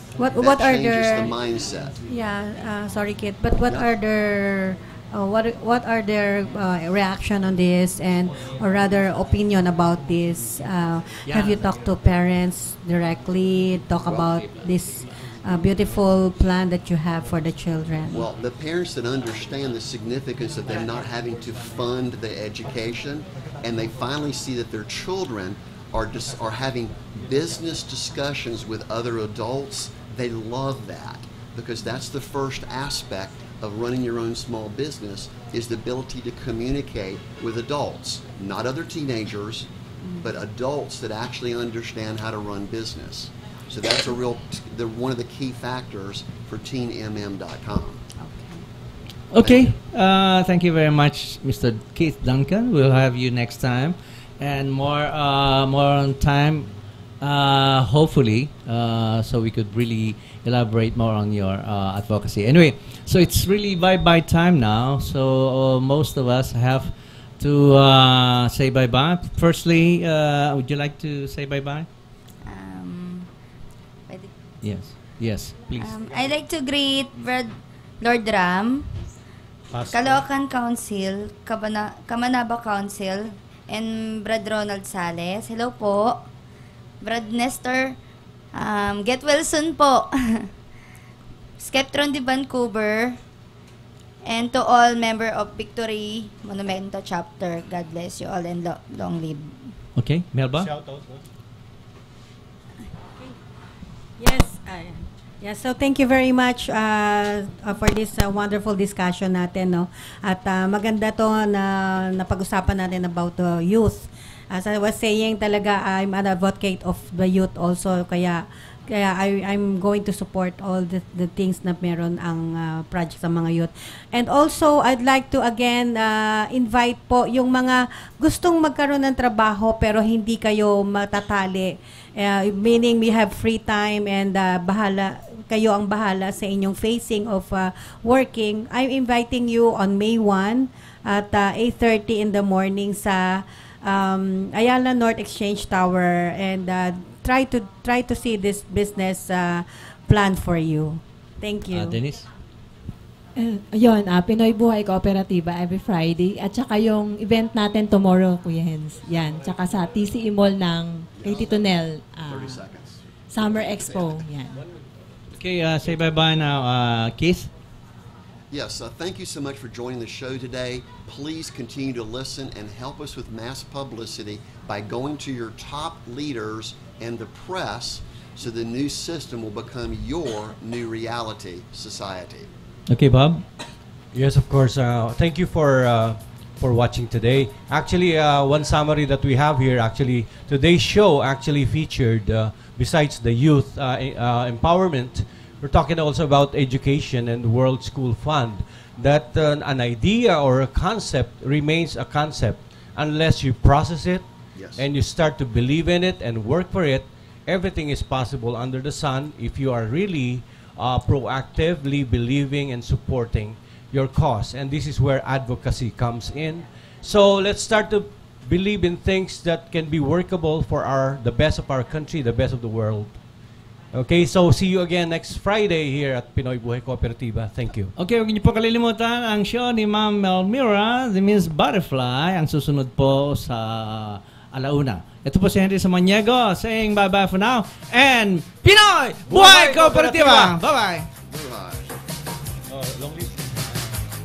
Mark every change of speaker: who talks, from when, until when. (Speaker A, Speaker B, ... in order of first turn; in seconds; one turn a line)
Speaker A: 0.2-1.3
Speaker B: 0.3-2.0
Speaker A: 2.1-18.2
Speaker C: 11.2-11.7
Speaker B: 14.0-14.4
Speaker B: 18.1-39.7
Speaker B: 40.2-48.0
Speaker A: 48.2-48.6
Speaker C: 49.3-56.7
Speaker B: 49.4-49.7
Speaker C: 57.2-71.9
Speaker D: 72.4-73.3
Speaker D: 74.1-74.3
Speaker C: 74.6-75.9
Speaker D: 75.8-79.0
Speaker E: 79.7-80.2
Speaker D: 79.9-86.3
Speaker D: 87.0-88.0
Speaker D: 88.5-90.5
Speaker D: 91.6-93.2
Speaker D: 94.2-99.7
Speaker C: 99.9-100.7
Speaker E: 100.6-101.2
Speaker A: 104.2-152.1
Speaker C: 151.7-152.2
Speaker F: 153.3-162.6
Speaker B: 161.1-164.2
Speaker F: 163.3-164.5
Speaker C: 165.3-167.5
Speaker B: 168.5-182.5
Speaker C: 182.9-183.4
Speaker E: 184.1-204.2
Speaker B: 204.5-204.8
Speaker E: 204.8-223.2
Speaker E: 223.9-227.9
Speaker C: 227.9-241.1
Speaker E: 239.3-240.6
Speaker B: 241.2-241.9
Speaker E: 242.7-243.7